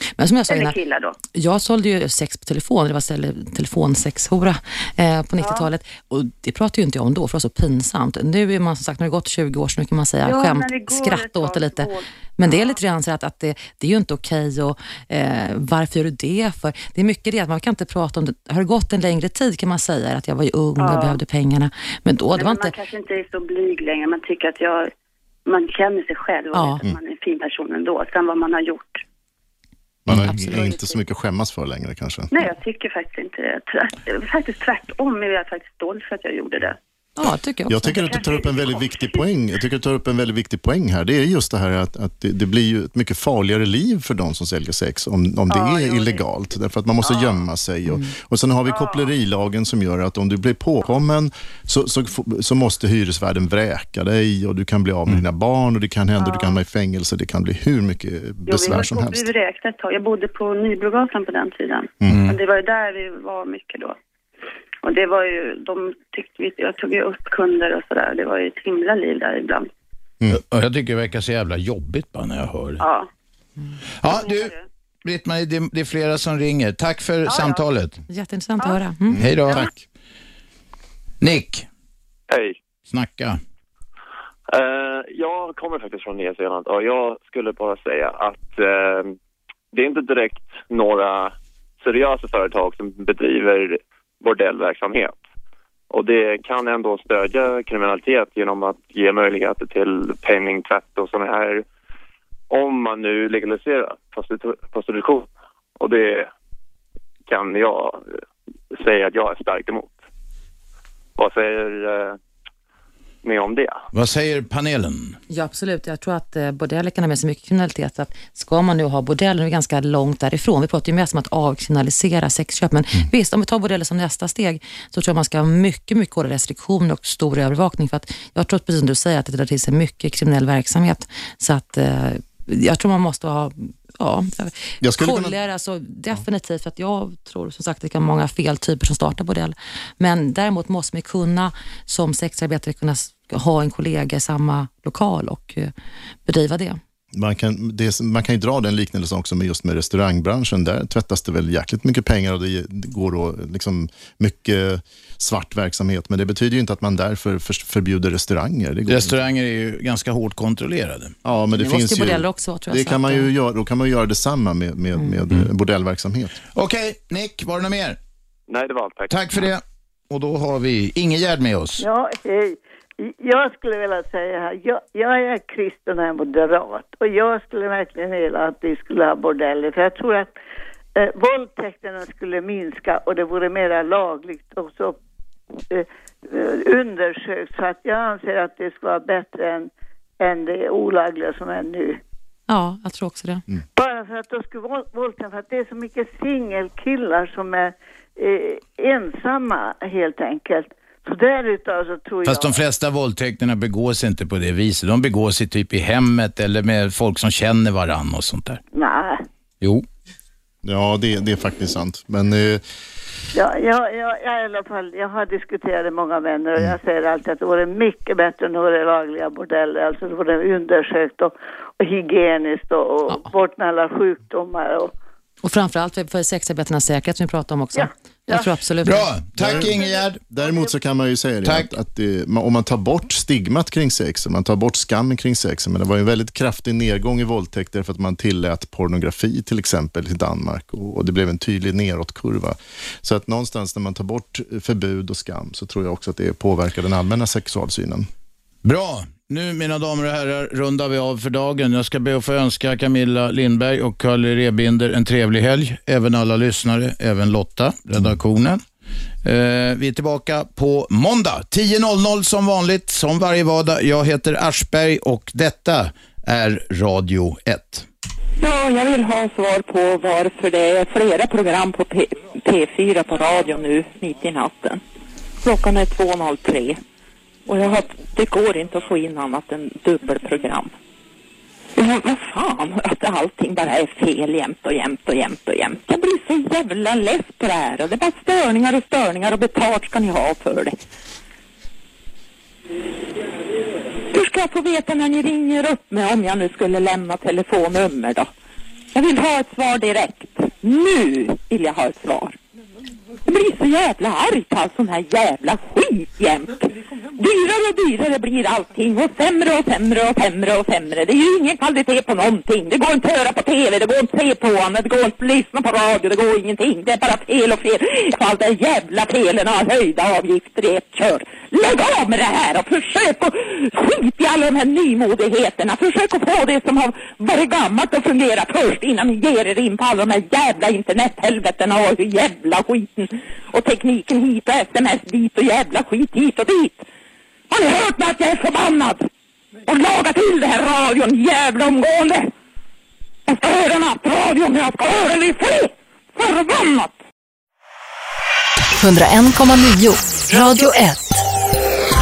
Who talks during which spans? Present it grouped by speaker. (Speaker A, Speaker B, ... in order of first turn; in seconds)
Speaker A: 0.2-0.8, 1.3-22.7, 26.5-26.8, 30.1-30.5, 37.2-38.1, 47.9-48.1, 78.1-79.7, 115.3-145.7, 146.3-146.8, 161.6-163.3, 192.5-193.4, 225.4-229.1
Speaker B: 0.5-1.2, 5.4-5.7, 10.2-12.8, 20.8-21.2, 22.3-24.9, 25.5-29.0, 30.3-31.0, 32.3-36.8, 38.1-39.2, 45.5-46.2, 48.7-49.0, 56.2-56.6, 58.5-64.0, 64.8-69.7, 72.8-73.1, 74.0-74.6, 77.3-77.6
Speaker C: 30.1-32.3, 37.7-59.3, 79.1-79.8, 134.8-135.3, 147.1-159.2, 161.2-166.4, 210.6-212.6, 229.4-248.1
Speaker D: 62.1-62.4, 70.3-72.8, 74.0-74.5, 75.0-78.0, 79.2-79.7, 81.2-81.7, 82.9-83.4, 113.9-115.2, 158.9-161.2, 166.6-168.0, 169.1-171.8, 202.2-208.6, 228.8-230.2, 231.4-231.7, 248.7-258.6, 259.2-267.9
Speaker E: 82.3-82.6, 84.5-89.2, 89.7-95.1, 95.9-101.6, 102.5-105.3, 105.8-106.3, 107.3-108.0, 108.7-110.0, 111.2-112.2, 113.2-113.8, 168.5-169.3
Speaker F: 171.8-180.4, 181.0-185.0, 185.7-192.0, 193.8-202.6, 208.7-209.2, 213.3-224.9, 227.8-228.6, 229.5-229.9, 230.4-230.7
Speaker G: 268.4-274.8, 275.4-276.8, 277.5-280.7, 281.8-290.8, 294.1-298.3, 298.9-302.4, 303.2-336.9, 337.5-339.1, 339.7-342.3, 343.3-347.0
Speaker H: 348.8-351.2